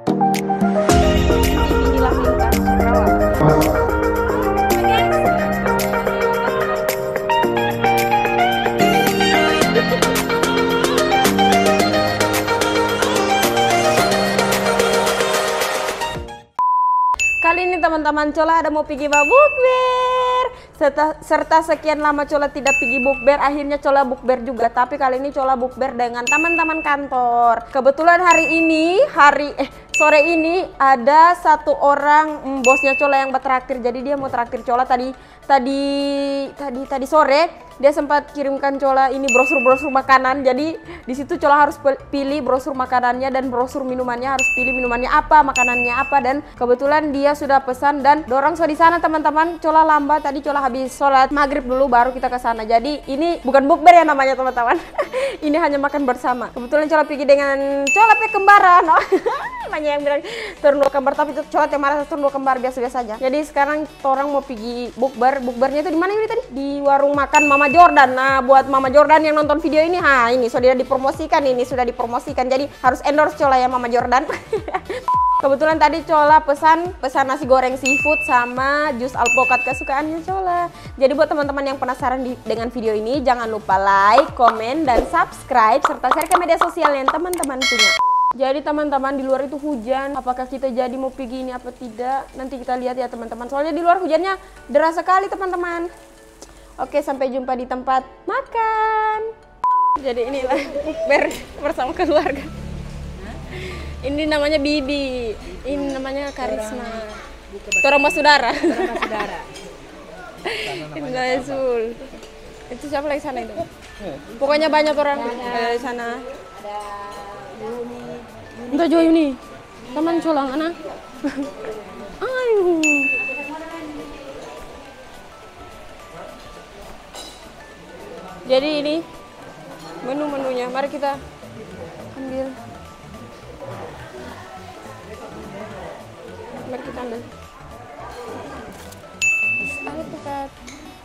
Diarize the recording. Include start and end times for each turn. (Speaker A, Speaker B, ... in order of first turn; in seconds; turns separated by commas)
Speaker A: 1.3-3.5, Speaker B: 5.0-5.9, Speaker A: 17.4-95.9, Speaker A: 96.8-99.3, Speaker A: 100.0-102.5, Speaker A: 103.2-109.3, Speaker B: 108.9-109.5, Speaker A: 110.4-112.2, Speaker A: 112.7-116.3, Speaker B: 116.6-118.2, Speaker A: 118.6-123.2, Speaker A: 128.4-129.0, Speaker A: 130.0-131.2, Speaker A: 132.1-132.6, Speaker A: 136.7-137.3, Speaker A: 139.6-140.5